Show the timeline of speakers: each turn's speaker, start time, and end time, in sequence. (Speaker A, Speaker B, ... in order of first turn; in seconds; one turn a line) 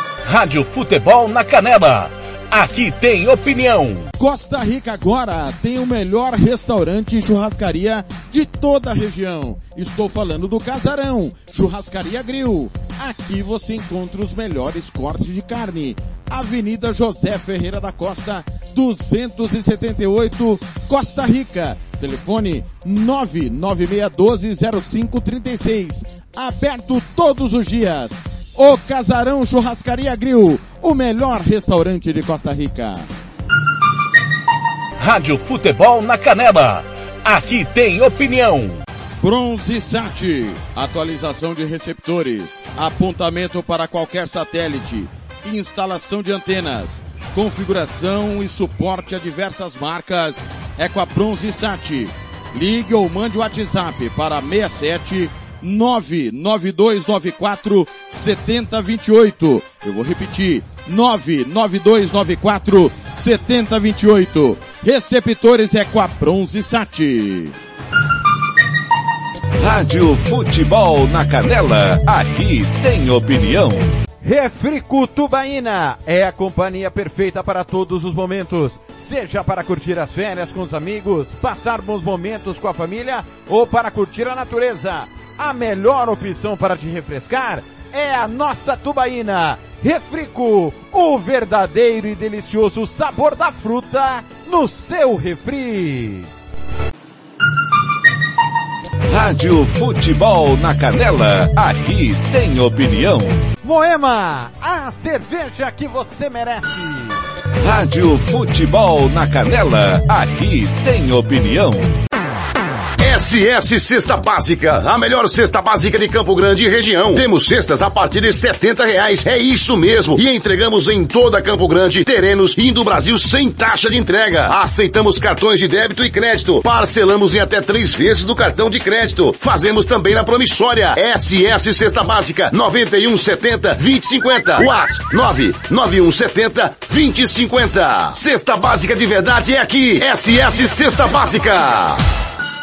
Speaker A: 0.3-4.1
Speaker B: 4.2-33.1
Speaker A: 35.0-38.8
Speaker B: 39.2-67.5
Speaker A: 69.6-73.9
Speaker B: 74.2-96.3
Speaker A: 99.1-103.5
Speaker B: 103.6-107.2
Speaker A: 107.6-111.9
Speaker C: 113.0-142.0